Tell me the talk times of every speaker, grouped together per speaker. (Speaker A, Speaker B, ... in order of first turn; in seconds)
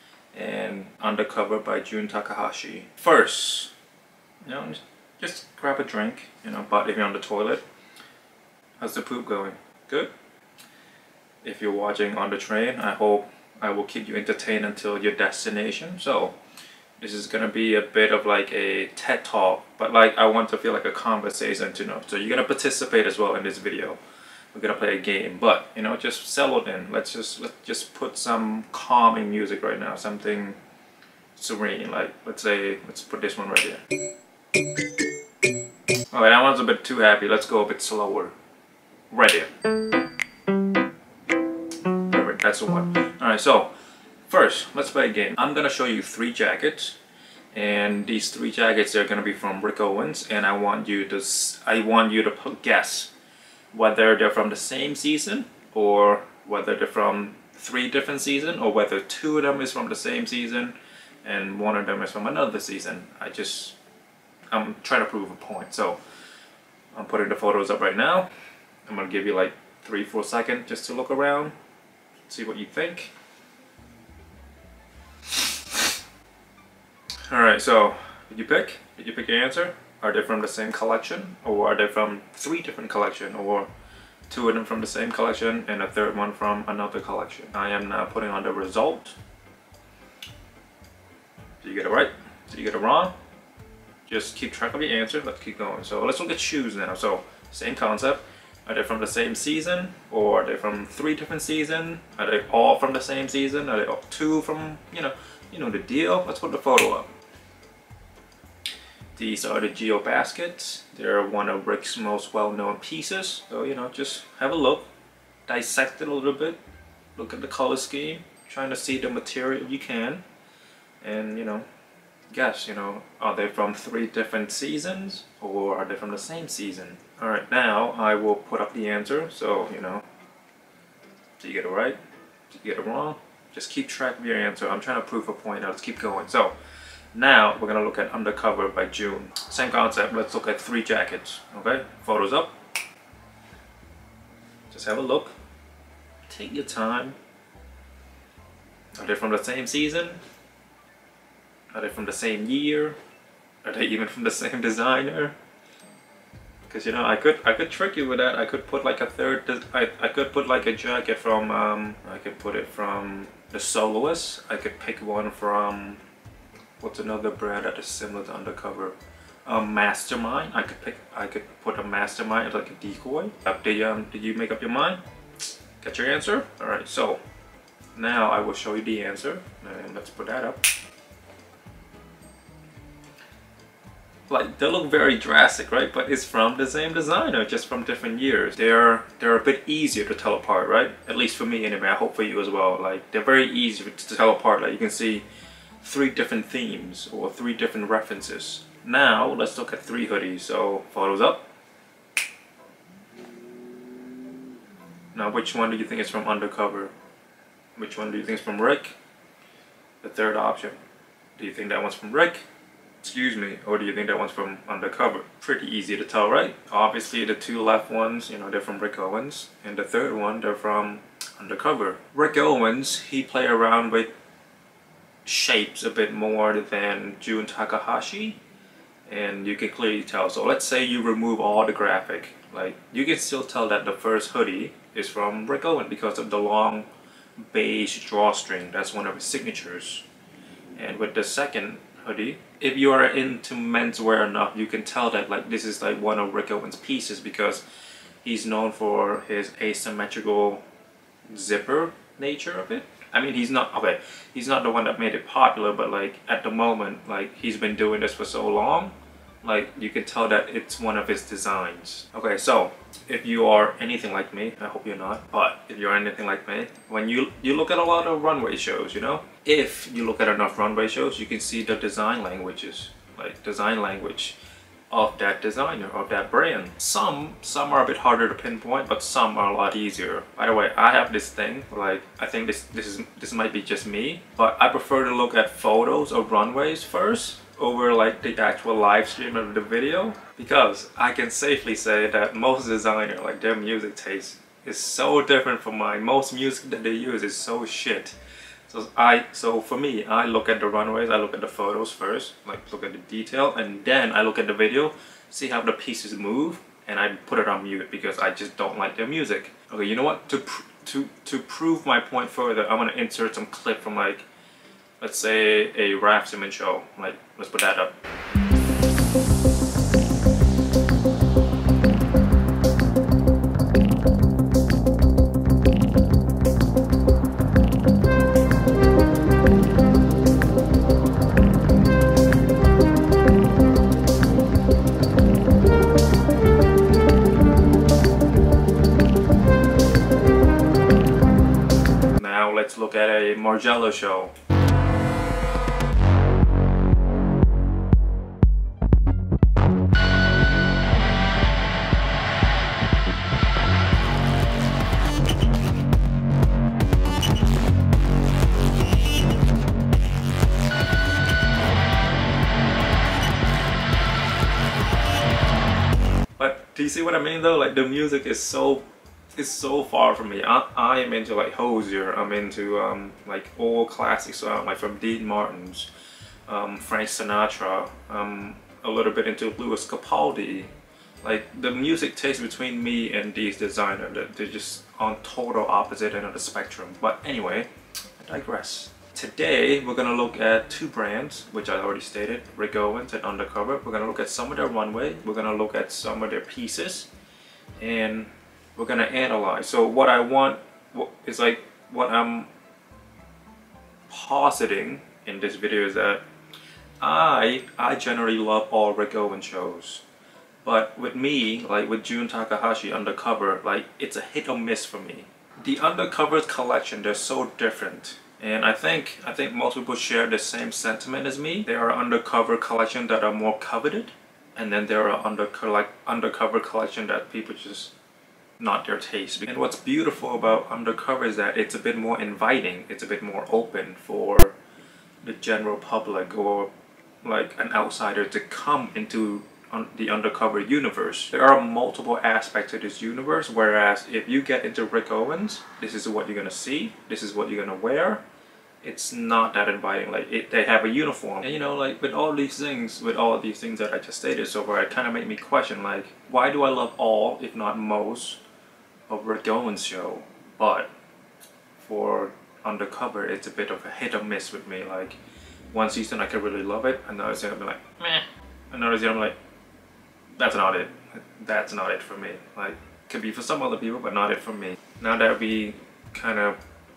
Speaker A: 0.3-3.7, 4.5-7.6, 8.8-10.1, 11.4-16.4, 17.0-24.0, 24.5-30.6, 31.4-33.8, 36.1-38.3, 39.1-39.5, 42.1-43.7, 44.3-47.0, 47.5-53.1, 53.7-63.8, 64.5-66.0, 66.9-68.3, 68.9-71.5, 72.3-73.1, 75.3-75.8, 77.3-83.7, 84.3-89.2, 91.6-93.1, 94.1-107.1, 109.1-114.9, 115.5-116.6, 117.2-120.2, 121.0-121.7, 122.3-130.0, 131.4-132.0, 132.5-136.5, 137.1-142.6, 144.7-145.3, 146.3-147.2, 149.0-150.2, 151.7-152.9, 153.6-155.3, 156.7-166.0, 166.8-175.0, 175.8-177.2, 177.9-180.6, 184.3-195.2, 195.8-201.4, 205.1-206.9, 207.8-208.9, 210.0-210.8, 211.3-212.4, 213.0-224.1, 225.2-228.4, 229.1-240.0, 240.8-247.6, 248.2-250.6, 251.3-274.4, 274.9-298.1, 298.7-314.2, 315.0-318.0, 342.1-344.3, 366.4-375.9, 376.5-380.7, 381.2-387.7, 388.2-397.1, 397.8-402.5, 404.1-406.2, 407.0-410.0, 410.6-427.9, 428.6-434.6, 435.2-436.7, 437.2-448.2, 448.8-458.4, 459.1-460.9, 461.8-465.2, 465.7-469.4, 470.4-476.6